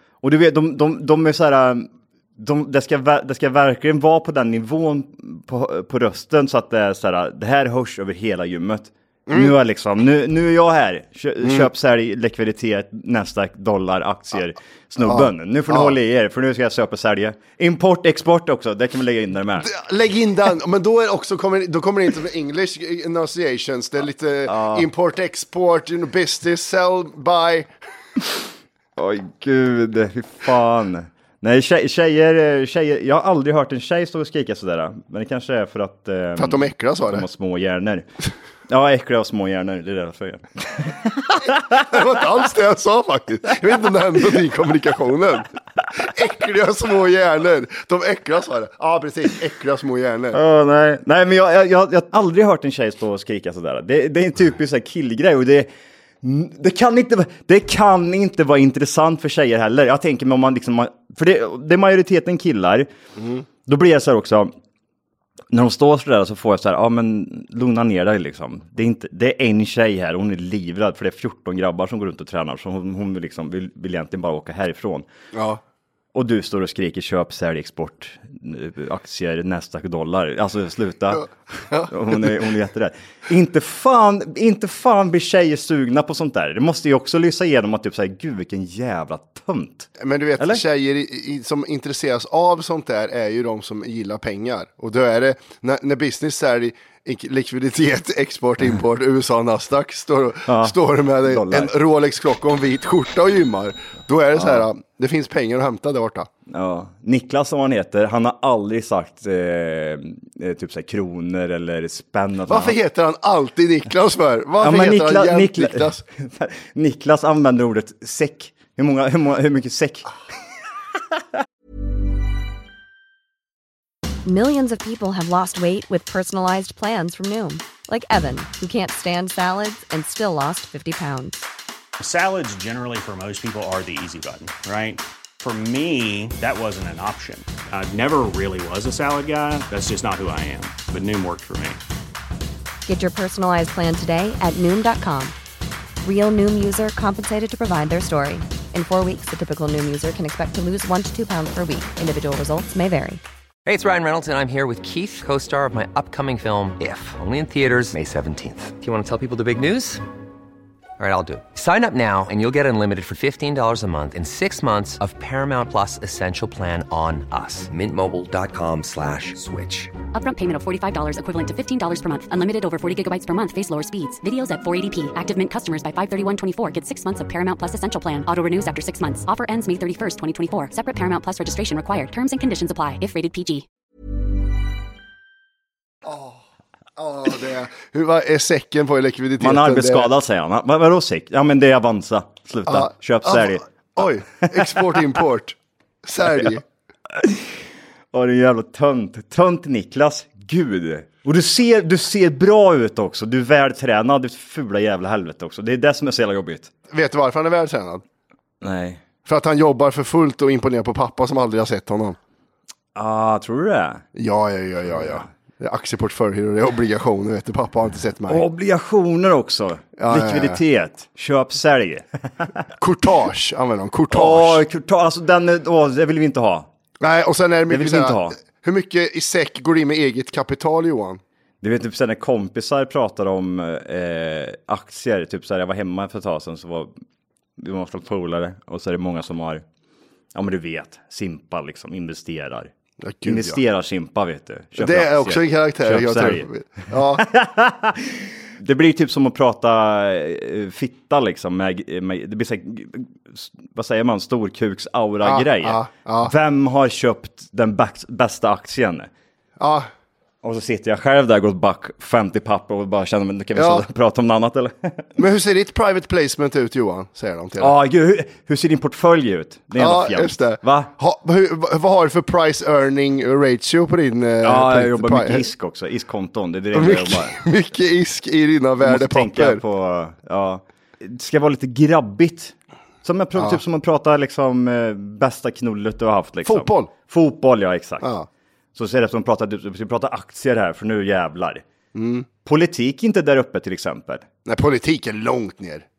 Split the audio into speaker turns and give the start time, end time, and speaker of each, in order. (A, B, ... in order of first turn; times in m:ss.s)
0:00.2-0:19.7 A
0:11.4-0:11.7 B
0:15.0-0:16.0 B
0:19.6-0:27.7 B
0:24.5-0:24.9 A
0:29.0-0:38.1 A
0:36.4-0:37.2 B
0:38.7-0:41.4 A
0:41.5-0:50.4 B
0:50.3-0:55.7 A
0:56.2-1:02.9 A
1:03.2-1:03.4 B
1:03.7-1:04.5 A
1:05.5-1:15.1 A
1:15.3-1:15.6 B
1:16.1-1:21.3 A
1:21.7-1:22.4 B
1:21.9-1:30.6 A
1:30.0-1:46.3 B
1:40.5-1:41.7 A
1:44.4-1:44.6 A
1:46.5-1:52.8 A
1:52.5-1:56.0 B
1:54.6-2:00.1 A
2:04.3-2:11.4 C
2:12.0-2:21.8 D
2:22.9-2:25.4 C
2:26.0-2:33.2 C
2:33.7-2:40.0 E
2:41.0-2:50.0 E
2:50.1-3:03.6 F
3:06.1-3:06.4 B
3:07.0-3:10.1 B
3:09.4-3:13.7 A
3:12.7-3:16.6 B
3:17.2-3:17.6 A
3:18.1-3:26.7 A
3:26.9-3:28.0 B
3:28.6-3:29.0 A
3:29.2-3:32.2 B
3:33.0-3:34.0 A
3:34.2-3:38.4 B
3:35.0-3:35.3 A
3:38.3-3:42.5 A
3:40.0-3:40.6 B
3:42.8-3:44.6 B
3:44.1-3:46.7 A
3:47.0-3:51.2 B
3:47.7-3:48.4 A
3:51.6-3:56.9 A
3:57.6-3:59.6 A
4:00.4-4:02.7 A
4:03.0-4:03.6 B
4:03.3-4:06.5 A
4:04.8-4:07.3 B
4:07.3-4:19.1 A
4:15.2-4:16.3 B
4:19.6-4:19.9 B
4:20.4-4:25.1 A
4:23.6-4:23.8 B
4:25.2-4:27.7 B
4:27.6-4:30.9 A
4:29.8-4:35.5 B
4:34.4-4:37.4 A
4:36.7-4:39.6 B
4:38.8-4:48.1 A
4:46.4-4:46.9 B
4:48.0-4:48.3 B
4:48.8-4:51.6 A
4:51.9-4:52.3 B
4:52.4-4:54.2 A
4:54.5-4:55.8 B